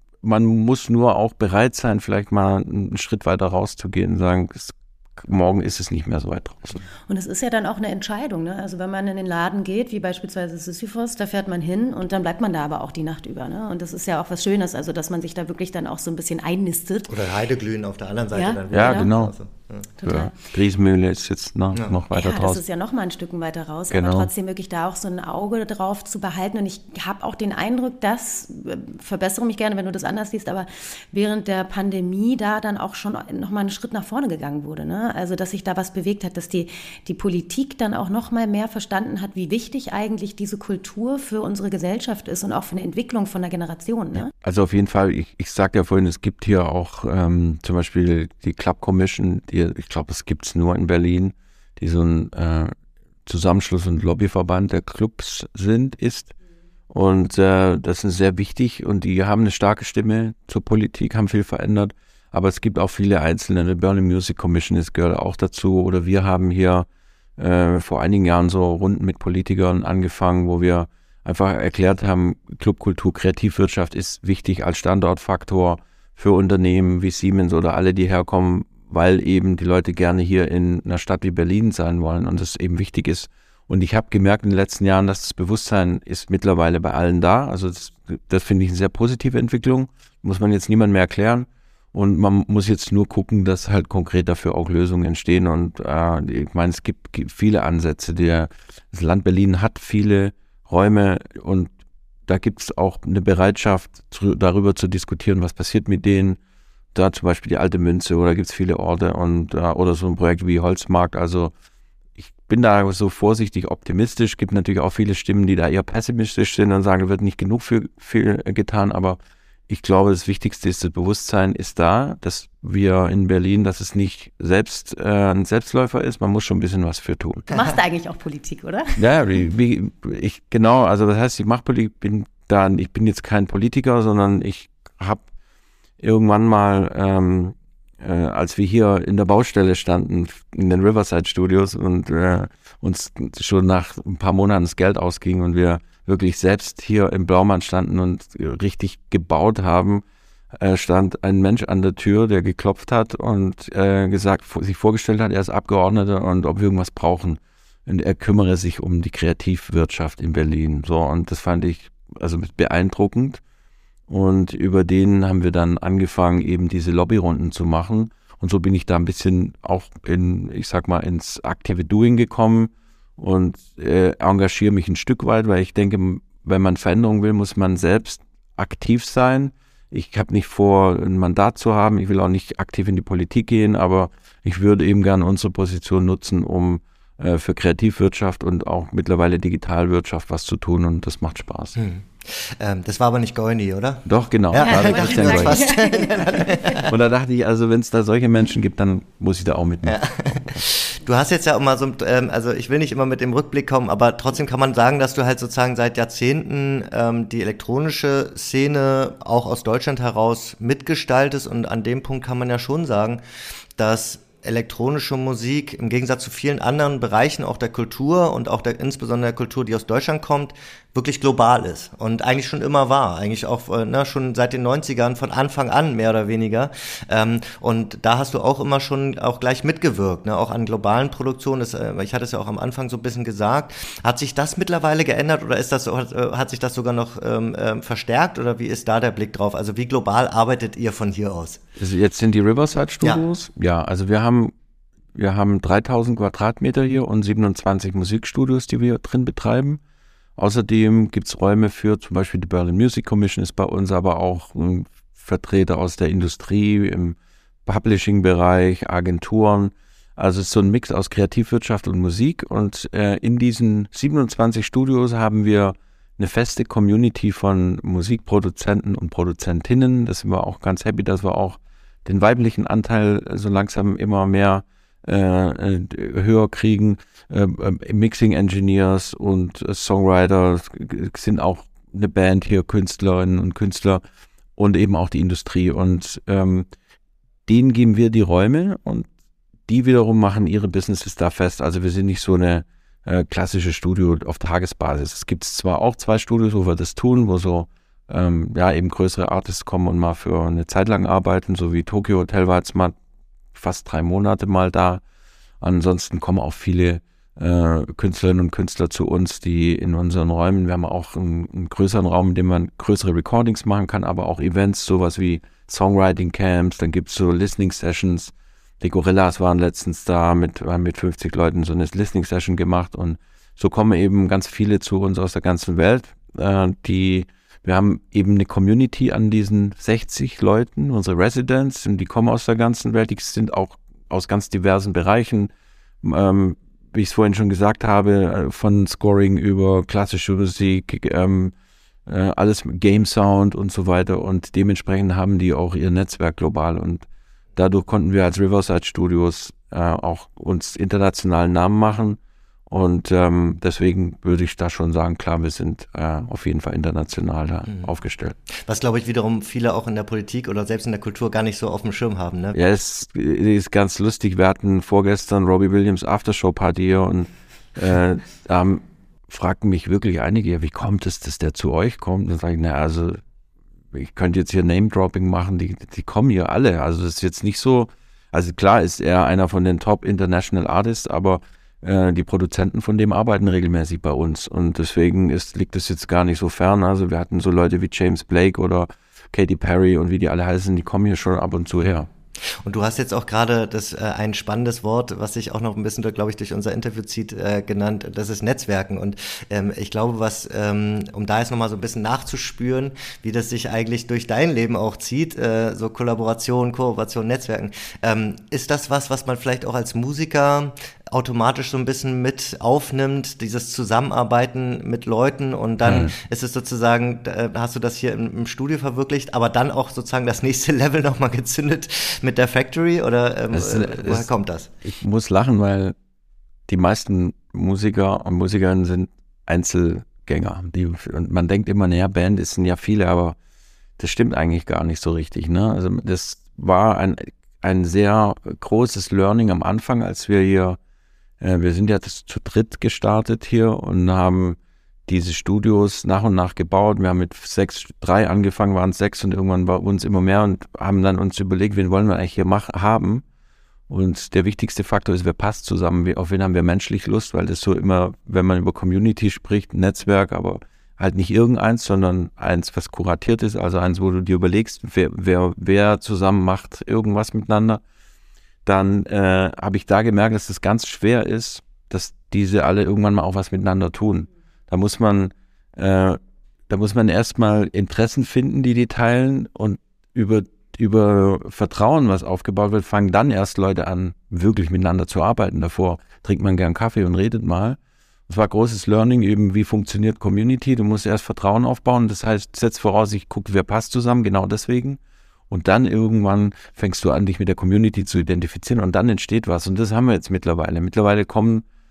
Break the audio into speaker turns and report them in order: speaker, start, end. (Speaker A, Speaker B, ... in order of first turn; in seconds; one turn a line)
Speaker A: 0.2-6.8
Speaker B: 7.1-17.2
Speaker C: 17.1-19.9
Speaker B: 18.3-19.1
Speaker A: 18.7-19.3
Speaker B: 20.0-20.3
Speaker A: 20.0-22.6
Speaker C: 21.7-22.0
Speaker B: 22.1-44.3
Speaker A: 23.9-24.3
Speaker A: 44.1-52.7
Speaker A: 53.2-56.3
Speaker A: 56.9-66.9
Speaker A: 67.4-101.7
Speaker A: 102.3-106.4
Speaker A: 106.9-111.5
Speaker A: 112.2-127.5
Speaker B: 127.5-129.0
Speaker A: 129.0-135.2
Speaker A: 136.0-163.4
Speaker A: 164.1-191.8
Speaker C: 191.8-196.9
Speaker A: 194.1-195.7
Speaker B: 194.6-196.8
Speaker A: 196.9-200.6
Speaker C: 199.8-213.2
Speaker C: 213.8-241.6
Speaker A: 241.8-244.5
Speaker A: 245.1-249.8
Speaker A: 250.4-284.0
Speaker A: 284.6-286.7
Speaker A: 287.5-289.1
Speaker A: 289.7-302.9
Speaker A: 303.5-305.0
Speaker A: 305.6-335.5
Speaker A: 336.0-341.5
Speaker A: 342.1-347.1
Speaker A: 347.6-358.4
Speaker C: 358.5-362.6
Speaker A: 362.5-373.2
Speaker A: 373.9-392.1
Speaker C: 392.6-424.7
Speaker A: 415.8-416.1
Speaker A: 423.5-424.3
Speaker A: 424.8-425.9
Speaker A: 426.7-433.4
Speaker A: 434.0-440.8
Speaker A: 441.4-453.2
Speaker A: 453.9-467.8
Speaker A: 468.6-501.6